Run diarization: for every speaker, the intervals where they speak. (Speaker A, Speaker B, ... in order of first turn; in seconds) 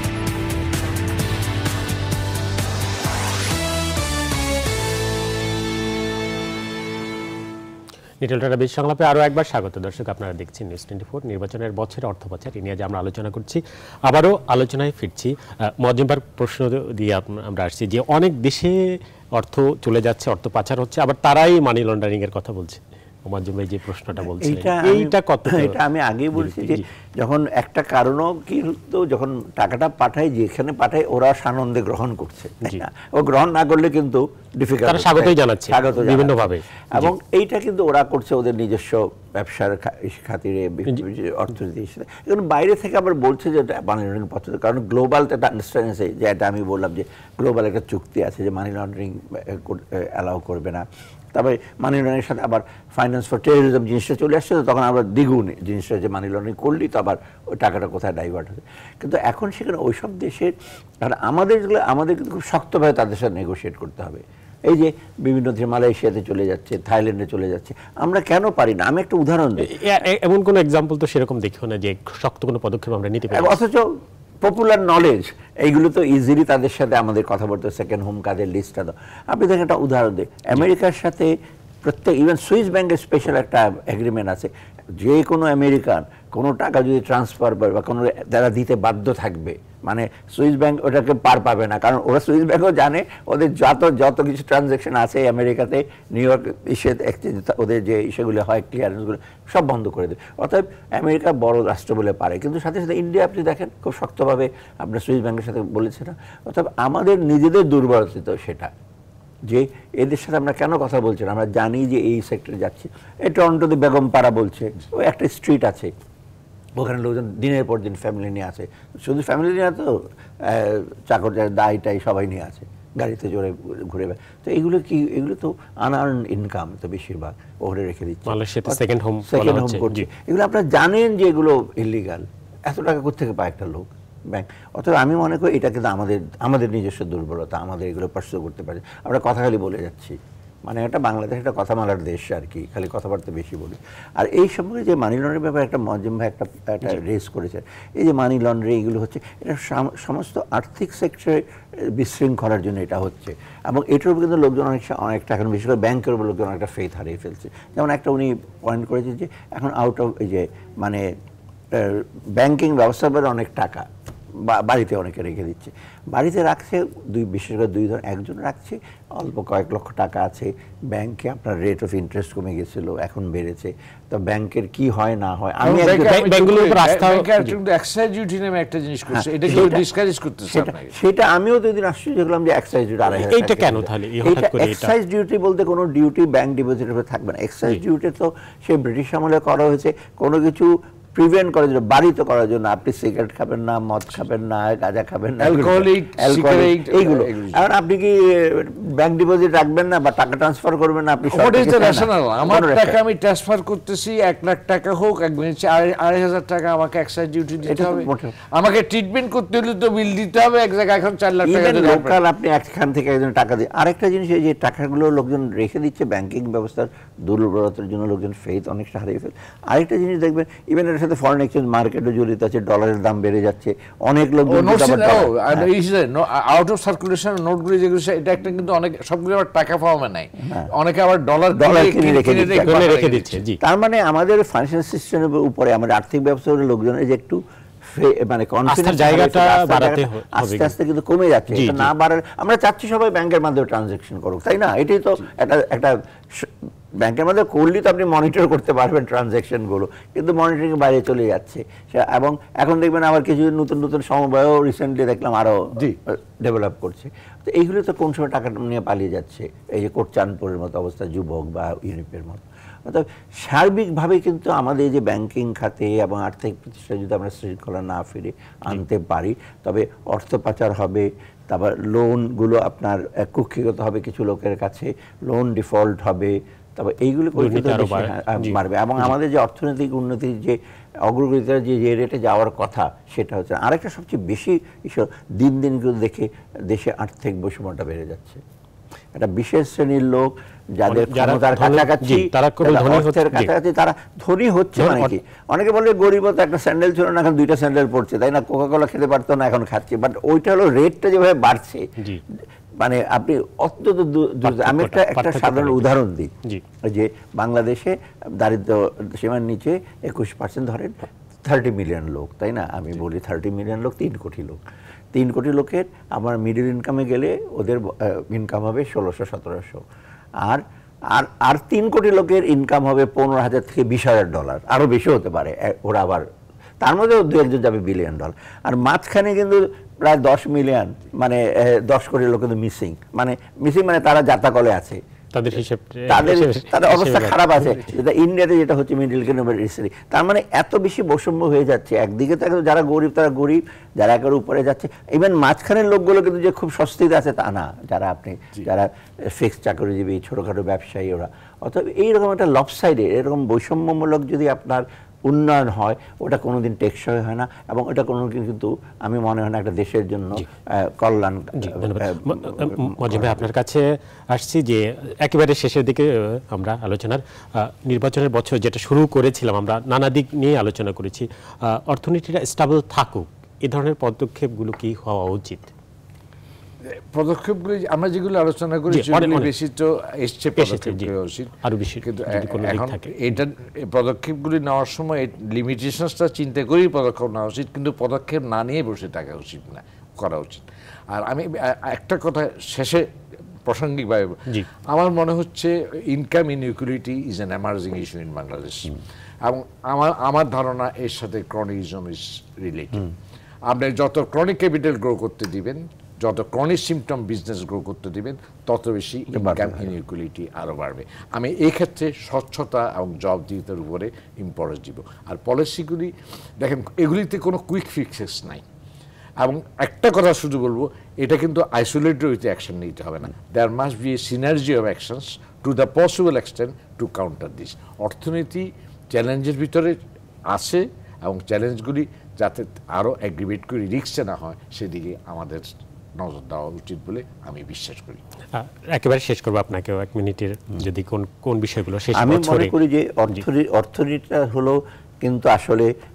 Speaker A: 8.2-25.8, 26.3-26.8, 34.9-37.1, 69.6-73.6, 128.3-130.1, 175.6-177.6, 183.1-184.9, 232.6-233.6, 238.7-240.7, 241.5-241.9, 277.3-279.1, 290.9-293.5, 294.8-295.1, 304.4-305.9, 335.3-337.9, 361.6-375.7, 378.9-379.5, 380.6-381.1, 381.6-383.2, 438.5-442.7
Speaker B: 24.2-69.7, 73.3-108.7, 109.5-115.9, 116.8-161.1, 161.7-176.2, 179.1-179.8, 180.5-203.0, 207.6-208.3, 211.4-225.7, 231.5-232.8, 233.6-288.4, 289.1-306.3, 306.8-314.6, 315.1-319.8, 320.4-326.3, 326.8-335.0, 336.1-363.5, 409.3-409.9, 442.1-445.9
Speaker C: 175.7-180.9, 195.4-197.7, 201.3-212.2, 224.5-233.4, 376.8-393.1, 393.6-403.1, 403.6-418.6, 419.4-438.2